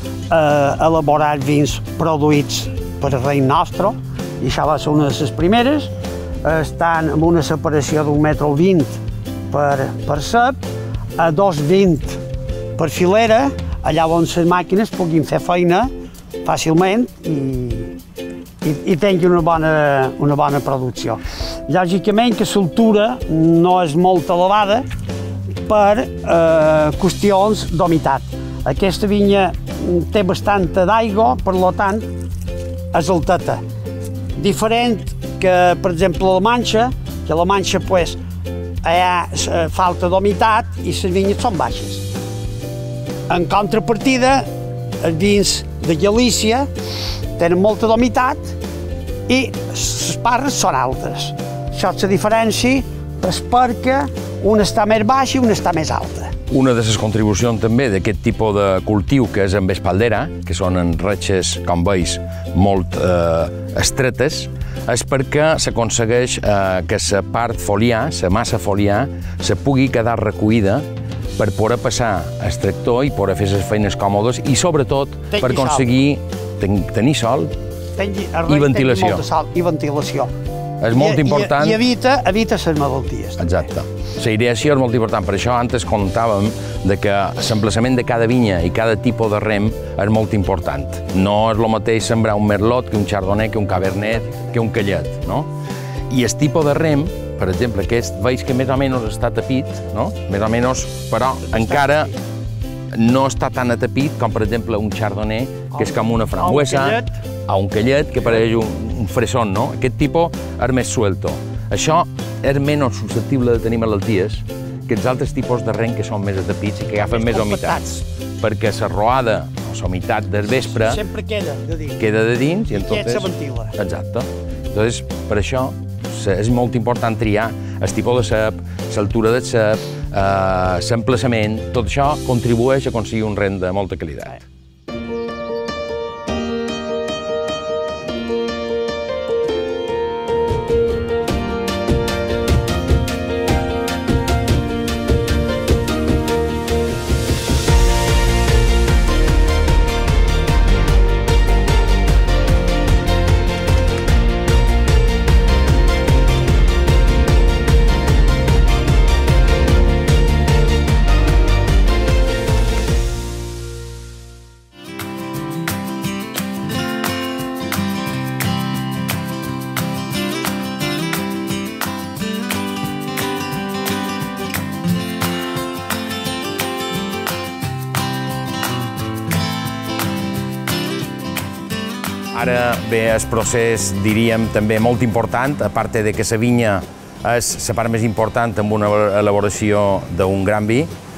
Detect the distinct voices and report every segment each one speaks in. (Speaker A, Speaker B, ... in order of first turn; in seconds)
Speaker A: 0.3-5.9, 6.4-10.6, 11.2-12.2, 12.8-15.9, 16.4-18.0, 18.6-24.9, 25.7-32.1, 32.9-33.6, 34.4-38.2, 38.8-42.1, 43.3-44.5, 45.0-46.7, 47.4-48.6, 49.3-56.4, 75.3-75.9, 78.0-80.3, 81.0-83.5, 101.9-102.1, 105.7-107.2, 117.1-118.0, 120.7-122.0, 122.7-123.8
Speaker B: 56.5-77.5, 78.5-79.2, 80.8-81.8, 83.4-95.5, 96.1-102.1, 102.9-121.0, 122.0-134.5, 182.3-190.9